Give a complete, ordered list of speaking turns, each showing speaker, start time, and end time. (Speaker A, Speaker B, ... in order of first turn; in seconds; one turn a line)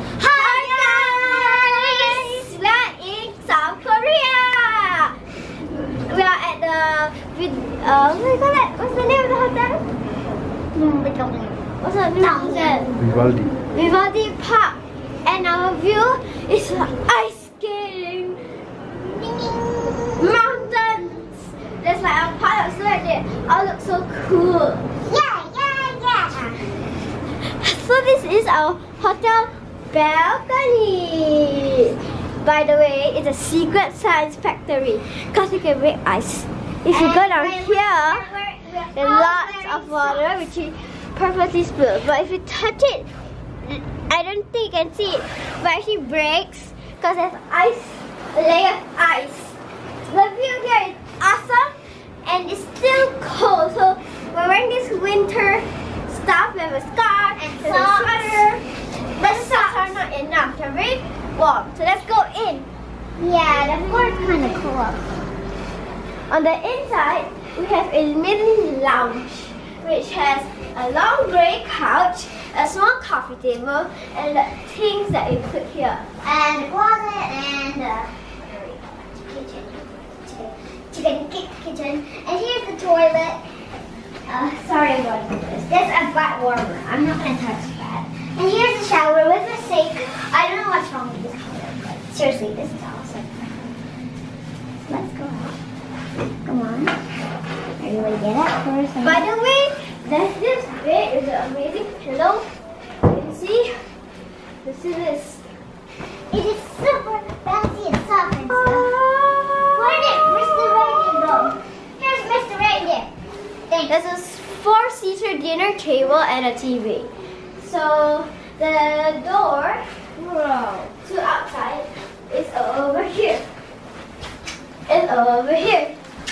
Speaker A: 0.1-2.5
Speaker B: 0.3-9.8
Speaker A: 10.7-11.6
Speaker B: 11.8-12.9
Speaker A: 12.2-13.3
Speaker B: 13.7-18.5
Speaker A: 19.0-20.4
Speaker B: 20.1-24.8
Speaker A: 25.0-26.7
Speaker B: 27.4-38.3
Speaker A: 36.9-40.3
Speaker B: 38.9-43.1
Speaker B: 43.6-58.6
Speaker A: 57.4-58.5
Speaker A: 59.1-60.0
Speaker B: 59.2-62.7
Speaker A: 63.2-65.1
Speaker B: 63.5-64.7
Speaker B: 66.3-76.0
Speaker A: 76.2-83.4
Speaker A: 84.2-93.7
Speaker A: 94.8-95.5
Speaker A: 96.2-97.0
Speaker A: 97.8-99.2
Speaker B: 99.0-102.5
Speaker B: 103.0-103.8
Speaker B: 104.6-105.4
Speaker A: 106.3-108.9
Speaker B: 108.5-111.5
Speaker A: 109.7-113.1
Speaker A: 113.7-113.9
Speaker B: 113.9-123.5
Speaker B: 124.9-125.9